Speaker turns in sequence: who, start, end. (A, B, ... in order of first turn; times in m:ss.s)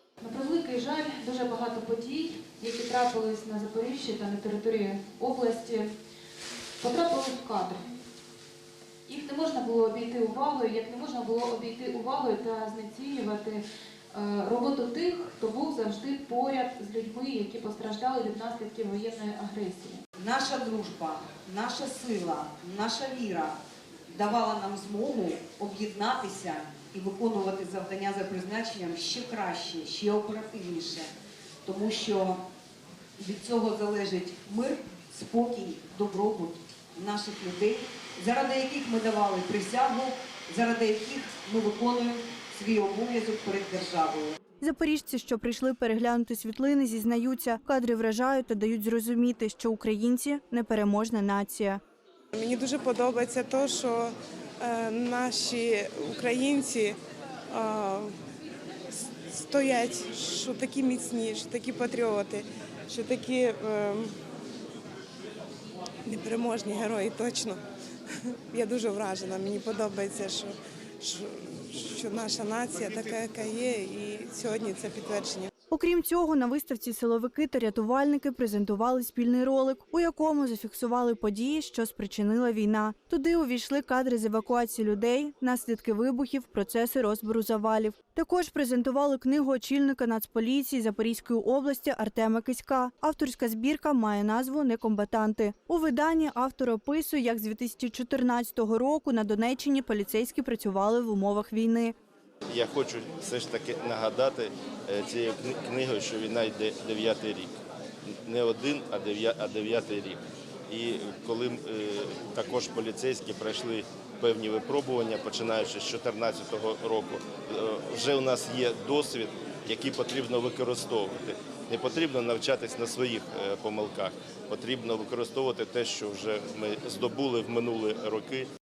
0:00.2-0:05.9 A
0:06.8-0:07.8 A
0:09.1-0:20.0 A
0:20.2-0:23.6 B
0:24.1-0:31.1 B
0:31.6-0:32.4 B
0:33.2-0:44.4 B
0:44.6-0:51.8 C
0:52.3-0:57.0 D
0:57.5-0:58.1 D
0:59.3-1:04.1 D
1:06.0-1:07.6 D
1:08.5-1:15.5 D
1:15.7-1:41.9 C
1:42.5-1:47.6 E
1:48.1-2:08.5 E